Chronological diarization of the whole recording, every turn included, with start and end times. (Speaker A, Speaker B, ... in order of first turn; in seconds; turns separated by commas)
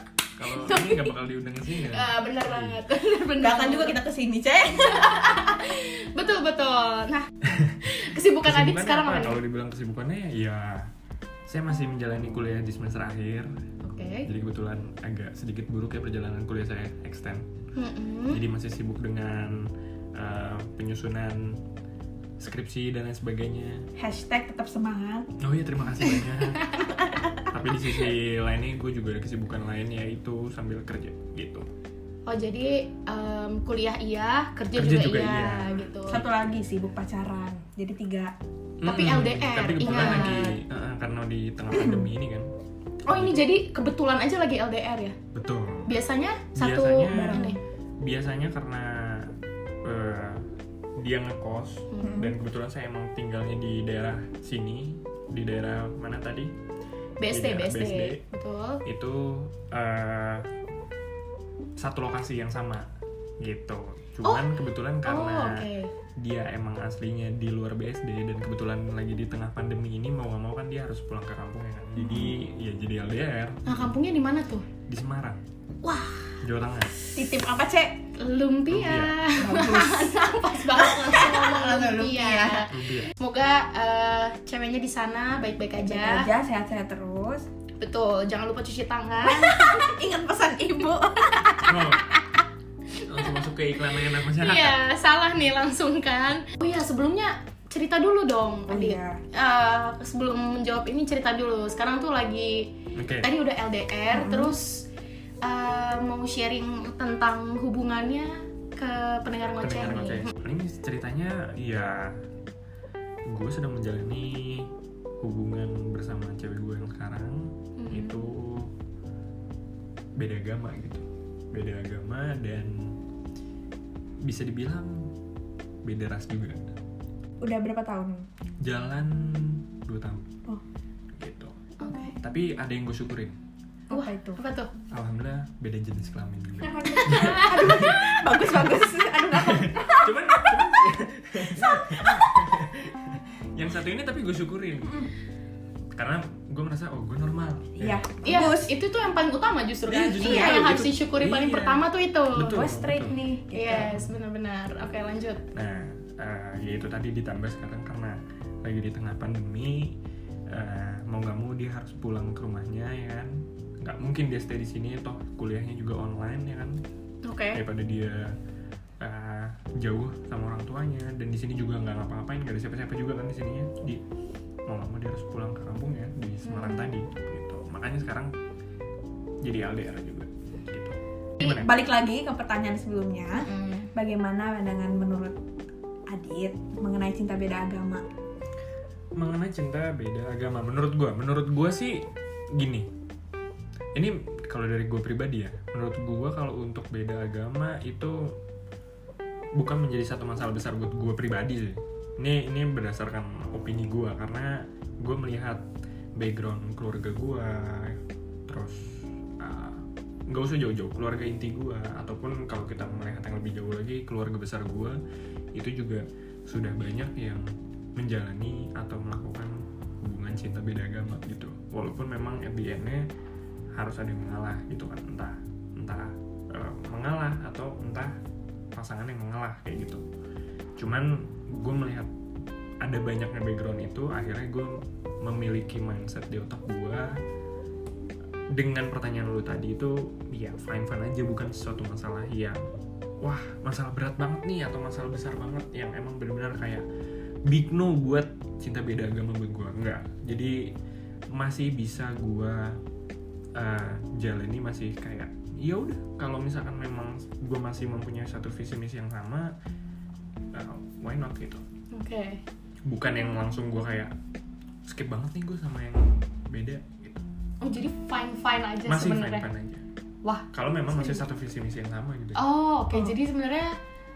Speaker A: 0.4-2.8, Speaker B: 0.5-1.1, Speaker B: 1.8-4.0, Speaker C: 3.4-5.5, Speaker B: 4.8-9.4, Speaker A: 7.5-7.8, Speaker A: 8.4-10.9, Speaker A: 11.5-13.5, Speaker B: 13.8-14.3, Speaker A: 14.3-17.4, Speaker B: 17.8-18.4, Speaker A: 18.3-19.6, Speaker A: 20.2-21.6, Speaker A: 22.4-23.9, Speaker C: 24.0-25.3, Speaker A: 25.4-31.7, Speaker B: 32.3-36.2, Speaker A: 34.7-36.5, Speaker C: 36.1-38.3, Speaker A: 38.8-42.5, Speaker B: 38.9-40.6, Speaker C: 38.9-39.2, Speaker C: 39.8-40.5, Speaker C: 41.7-42.1, Speaker B: 43.1-45.1, Speaker A: 43.1-43.5, Speaker A: 45.3-45.9, Speaker B: 45.9-47.6, Speaker A: 46.6-47.5, Speaker C: 47.1-47.6, Speaker A: 48.0-49.3, Speaker A: 49.9-50.5, Speaker A: 51.0-56.5, Speaker C: 52.0-52.3, Speaker B: 57.2-58.8, Speaker A: 57.3-58.2, Speaker A: 58.9-60.5, Speaker A: 61.8-62.9, Speaker A: 63.4-65.7, Speaker B: 65.0-65.9, Speaker A: 66.2-73.9, Speaker C: 72.0-72.3, Speaker B: 73.7-74.7, Speaker A: 74.9-75.4, Speaker B: 75.9-76.2, Speaker A: 76.4-76.9, Speaker C: 77.2-78.0, Speaker B: 78.2-86.3, Speaker A: 78.7-79.2, Speaker C: 79.4-82.7, Speaker A: 82.7-83.1, Speaker C: 85.8-87.5, Speaker B: 87.8-89.8, Speaker C: 89.2-92.0, Speaker A: 91.7-92.0, Speaker B: 91.9-92.4, Speaker A: 93.0-94.8, Speaker B: 94.3-104.9, Speaker C: 98.7-99.2, Speaker A: 103.0-103.3, Speaker C: 104.1-104.5, Speaker B: 105.4-110.3, Speaker A: 109.6-112.1, Speaker A: 113.3-114.7, Speaker A: 115.2-118.7, Speaker B: 117.8-118.2, Speaker A: 120.2-122.9, Speaker A: 124.3-124.9, Speaker A: 125.9-126.6, Speaker C: 127.4-128.2, Speaker A: 128.6-130.3, Speaker A: 131.2-131.5, Speaker B: 131.8-132.2, Speaker A: 132.2-133.4, Speaker B: 133.9-134.7, Speaker C: 133.9-134.4, Speaker A: 134.9-137.8, Speaker C: 136.6-140.8, Speaker B: 137.0-138.2, Speaker A: 139.3-145.1, Speaker C: 141.5-142.4, Speaker A: 146.0-148.0, Speaker C: 147.8-148.7, Speaker B: 148.2-152.6, Speaker A: 149.9-153.2, Speaker C: 150.2-150.7, Speaker C: 152.4-154.0, Speaker B: 153.5-155.4, Speaker A: 153.8-154.1, Speaker A: 155.6-159.9, Speaker A: 160.5-163.3, Speaker A: 163.8-166.7, Speaker B: 167.2-167.6, Speaker A: 167.6-168.3, Speaker A: 169.0-174.0, Speaker A: 174.7-178.3, Speaker B: 176.4-176.9, Speaker A: 179.4-181.7, Speaker C: 181.4-185.4, Speaker B: 183.4-183.9, Speaker C: 186.1-188.0, Speaker A: 189.2-192.0, Speaker A: 192.6-192.9, Speaker A: 194.0-198.2, Speaker A: 199.6-205.6, Speaker A: 206.2-208.0, Speaker A: 208.5-208.8, Speaker A: 209.4-215.0, Speaker A: 215.6-217.4, Speaker A: 218.0-223.1, Speaker A: 223.8-228.1, Speaker A: 228.8-230.0, Speaker A: 230.8-232.1, Speaker A: 232.8-234.7, Speaker A: 235.2-237.2, Speaker A: 238.6-242.6, Speaker A: 243.2-246.8, Speaker A: 247.5-250.6, Speaker A: 251.3-252.7, Speaker A: 253.6-259.5, Speaker A: 260.5-261.6, Speaker B: 261.9-262.4, Speaker A: 262.9-264.1, Speaker A: 264.9-267.2, Speaker B: 267.6-269.5, Speaker A: 268.9-269.8, Speaker A: 270.5-272.4, Speaker B: 272.4-273.7